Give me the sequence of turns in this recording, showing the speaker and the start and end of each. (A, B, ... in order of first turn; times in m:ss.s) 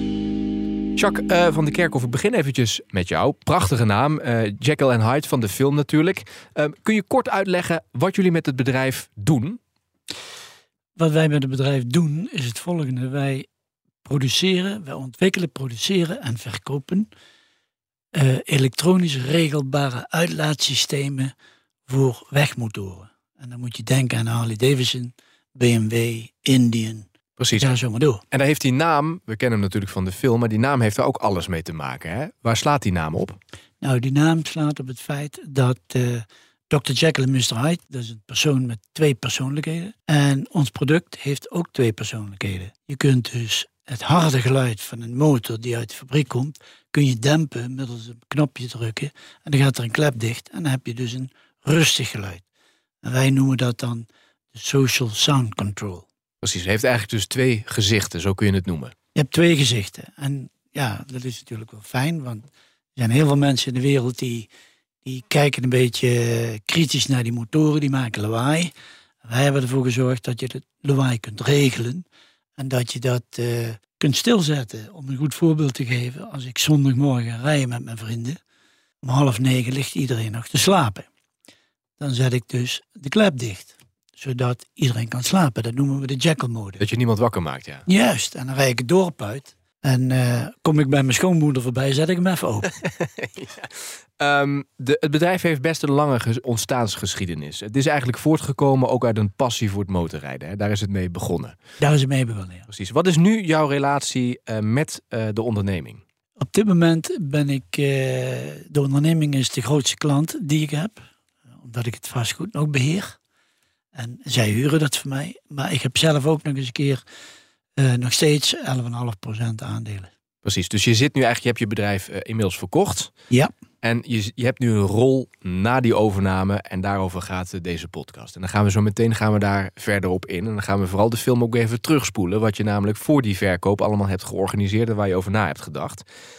0:01.0-0:09.6 A
0:11.0-0:13.5 B
0:14.0-0:17.1 B
0:18.1-0:21.3 B
0:21.9-0:28.2 B
0:27.4-0:27.7 A
0:28.3-0:33.4 A
0:33.8-0:52.4 B
0:53.0-0:56.0 B
0:56.4-0:58.9 A
0:59.2-1:04.5 B
1:05.0-1:08.7 B
1:09.2-1:12.1 B
1:12.6-1:18.4 B
1:19.0-1:21.1 B
1:22.0-1:26.8 B
1:26.8-1:27.9 A
1:27.9-1:32.7 B
1:32.8-1:41.6 A
1:41.8-1:42.7 B
1:42.7-1:46.0 A
1:46.4-1:51.0 B
1:51.6-1:53.2 B
1:54.0-1:57.0 B
1:57.8-2:00.1 B
2:00.4-2:03.1 A
2:03.8-2:16.0 A